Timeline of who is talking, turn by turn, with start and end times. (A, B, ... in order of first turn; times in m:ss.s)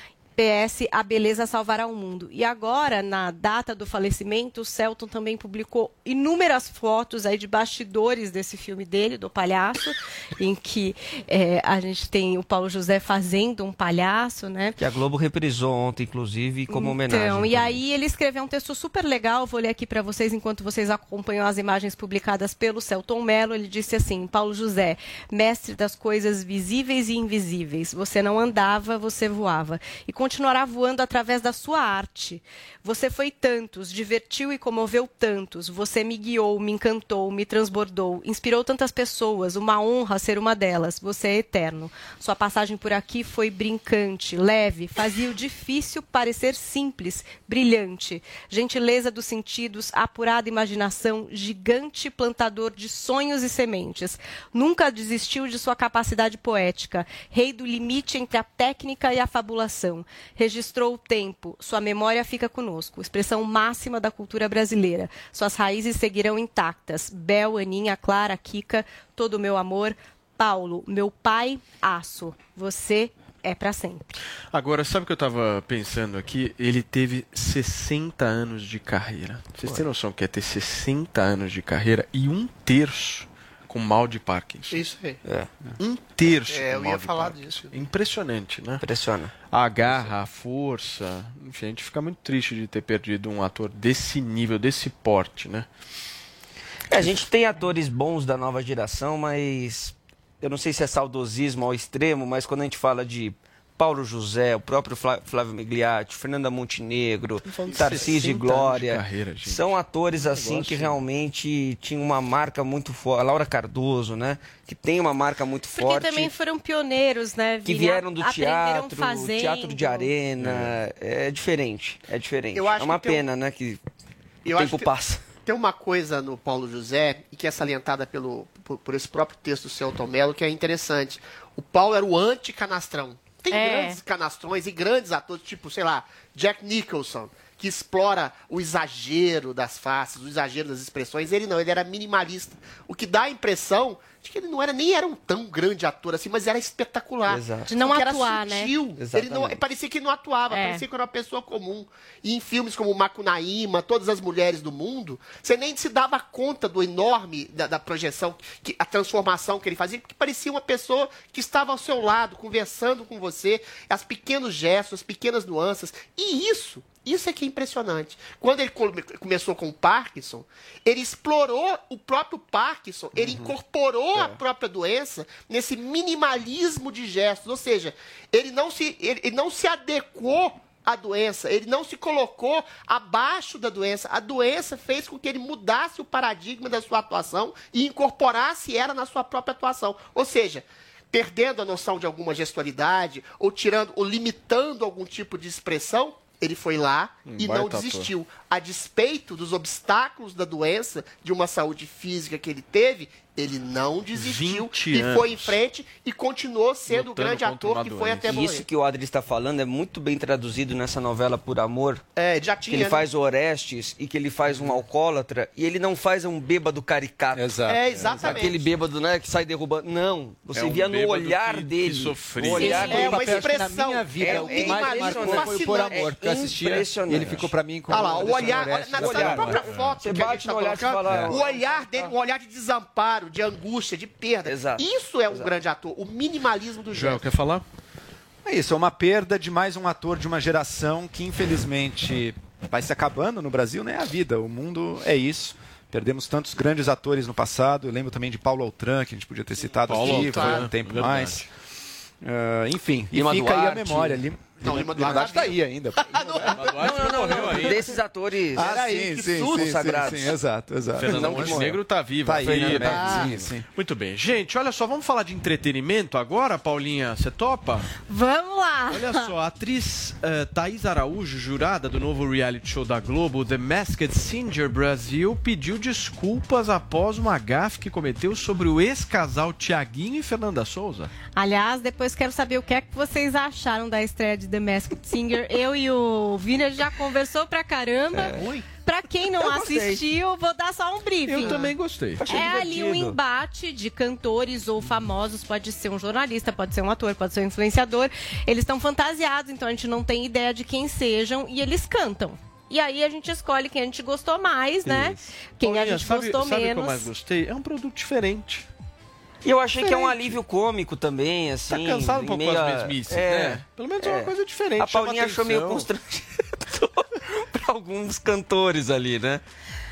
0:00.4-0:14.8 A
0:14.8-0:17.8 B
0:16.7-1:14.2 A
1:14.5-1:24.8 C
1:24.7-1:25.2 D
1:25.8-1:28.8 C
1:26.5-1:27.8 D
1:28.8-1:29.3 B
1:29.5-1:35.7 C
1:36.9-1:56.3 B
1:47.5-1:51.0 C
1:55.8-2:00.1 A
1:57.6-2:03.8 B
2:00.4-2:00.7 C
2:02.5-2:03.3 D
2:04.4-3:28.7 D
2:04.5-2:05.3 B
2:13.5-2:14.0 A
2:27.3-2:27.7 B
2:27.7-2:28.7 A
2:29.0-2:29.6 B
2:30.5-2:30.8 A
2:53.2-2:53.5 B
2:54.1-2:54.4 B
3:17.3-3:18.1 C
3:24.1-3:25.6 C
3:26.9-3:28.4 C
3:28.3-3:32.0 B
3:32.2-3:33.1 D
3:32.7-3:37.6 B
3:37.3-3:37.8 E
3:37.6-3:38.7 D
3:38.0-3:38.4 C
3:38.2-3:43.6 B
3:40.5-3:42.9 C
3:42.5-3:46.2 D
3:42.7-3:49.7 E
3:44.1-3:47.5 B
3:47.9-3:57.3 D
3:48.0-3:51.7 B
3:51.1-3:51.4 E
3:54.4-3:55.5 B
3:56.9-3:57.6 C
3:58.4-4:11.5 E
4:09.9-4:11.5 C
4:09.9-4:10.7 D
4:12.2-4:16.6 E
4:13.1-4:14.2 B
4:14.6-4:17.6 D
4:16.4-4:17.8 C
4:16.8-4:18.7 B
4:18.5-4:23.6 E
4:18.6-4:19.9 D
4:19.4-4:20.4 B
4:21.0-4:27.9 C
4:21.0-4:21.7 B
4:22.5-4:23.3 D
4:28.1-4:29.3 A
4:28.9-4:41.1 C
4:41.4-4:51.6 A
4:48.1-4:48.5 B
4:48.4-4:48.6 D
4:49.4-4:50.0 B
4:51.3-4:52.2 C
4:52.2-4:53.2 B
4:52.3-5:07.1 A
5:04.8-5:08.7 C
5:09.4-5:19.4 B
5:09.8-5:10.3 A
5:11.7-5:15.9 C